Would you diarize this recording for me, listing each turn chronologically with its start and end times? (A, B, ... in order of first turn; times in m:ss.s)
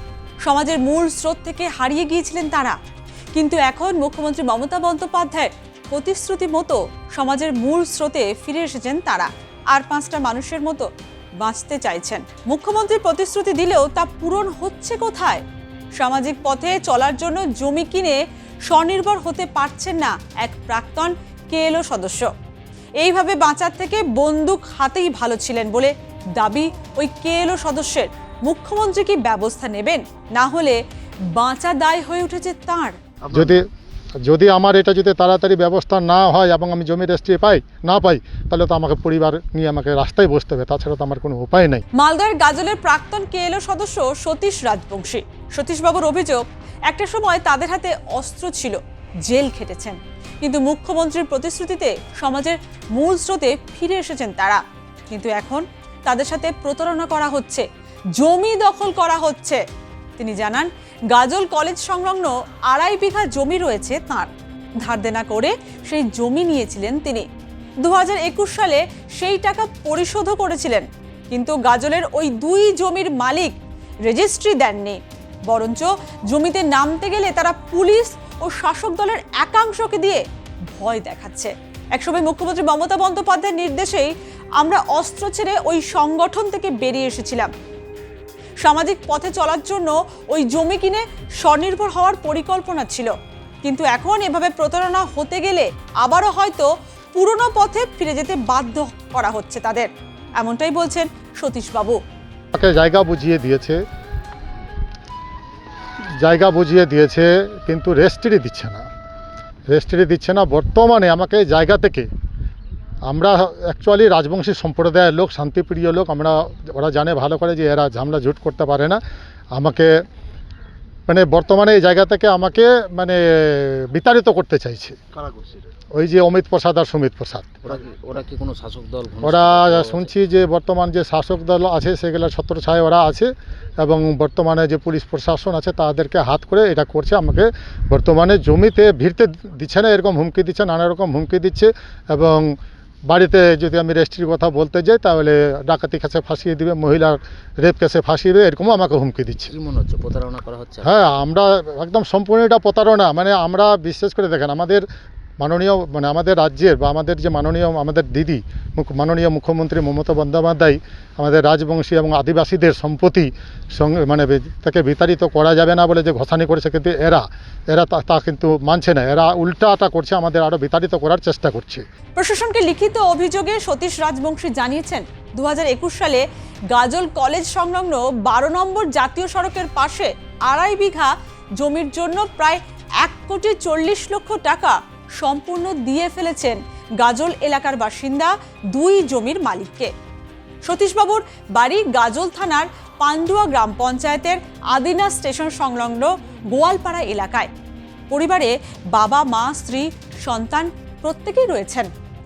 0:00.4-0:02.8 A
0:03.4-0:10.9 A
0:11.4-0:15.4 A
0:16.0-0:22.3 A
0:23.0-0:30.8 A
0:31.3-0:33.0 A
0:33.3-0:33.6 B
0:34.2-0:41.8 B
0:42.0-0:57.6 A
0:58.2-0:59.6 A
1:00.2-1:07.3 A
1:07.8-1:13.5 A
1:14.0-1:20.2 A
1:20.8-1:27.5 A
1:28.6-1:33.1 A
1:33.6-1:42.0 A
1:42.5-1:43.8 B
1:46.2-1:48.9 B
1:49.7-1:52.1 B
1:53.0-1:59.0 B
1:59.5-2:00.0 B
2:01.1-2:05.0 B
2:05.9-2:07.6 B
2:07.6-2:10.1 C
2:09.2-2:13.3 B
2:13.8-2:22.5 B
2:23.1-2:29.5 B
2:29.5-2:30.9 C
2:30.8-2:34.8 B
2:35.4-2:51.8 B
2:52.2-3:09.9 A
3:10.6-3:17.5 A
3:18.1-3:21.9 A